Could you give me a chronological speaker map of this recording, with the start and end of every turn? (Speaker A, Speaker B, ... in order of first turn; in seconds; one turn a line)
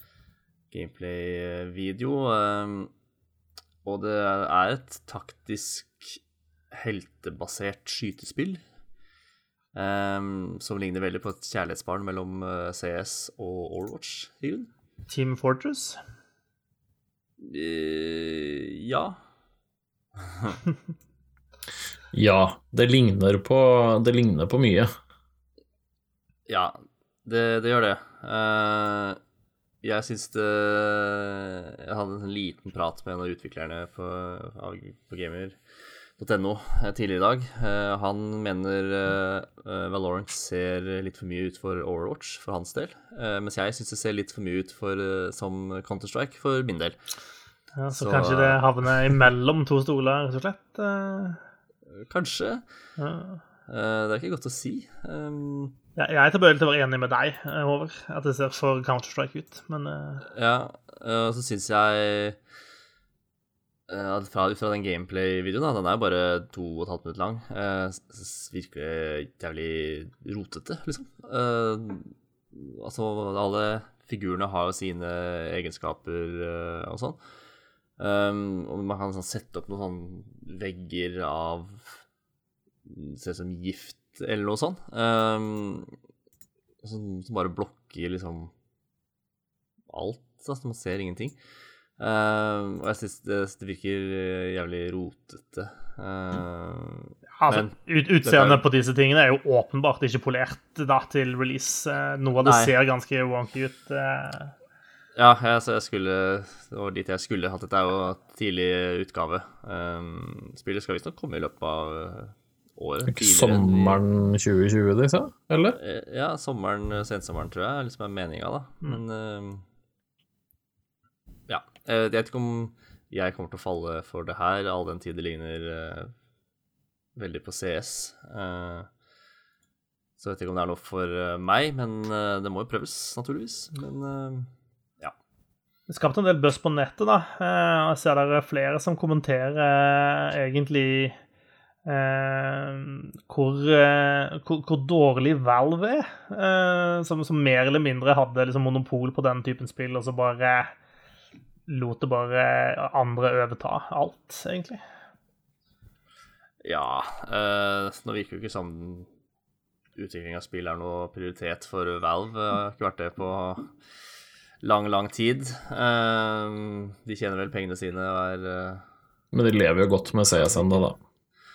Speaker A: 0.7-2.9
Speaker A: 3.8-6.2
Speaker A: 6.7-8.6
Speaker A: 9.7-14.7
Speaker B: 15.1-16.0
Speaker A: 17.4-19.2
Speaker A: 20.3-20.6
Speaker C: 22.1-24.9
Speaker A: 26.5-29.2
Speaker A: 29.8-35.6
Speaker A: 36.2-47.0
Speaker B: 47.8-51.4
Speaker A: 47.9-48.6
Speaker A: 51.9-52.6
Speaker B: 53.0-53.4
Speaker A: 53.7-55.7
Speaker B: 56.0-60.2
Speaker A: 60.3-62.4
Speaker A: 63.9-77.2
Speaker A: 78.0-82.0
Speaker A: 82.8-85.9
Speaker A: 86.8-88.5
Speaker A: 89.9-91.3
Speaker A: 92.0-98.6
Speaker B: 97.4-104.5
Speaker A: 102.4-102.7
Speaker A: 105.1-114.0
Speaker C: 113.1-115.8
Speaker A: 115.8-119.6
Speaker A: 121.5-126.1
Speaker A: 127.2-128.9
Speaker A: 130.2-134.5
Speaker B: 135.9-141.2
Speaker B: 141.8-150.7
Speaker B: 151.7-154.8
Speaker A: 156.6-159.1
Speaker A: 159.9-163.7
Speaker A: 164.6-168.8
Speaker C: 169.3-171.0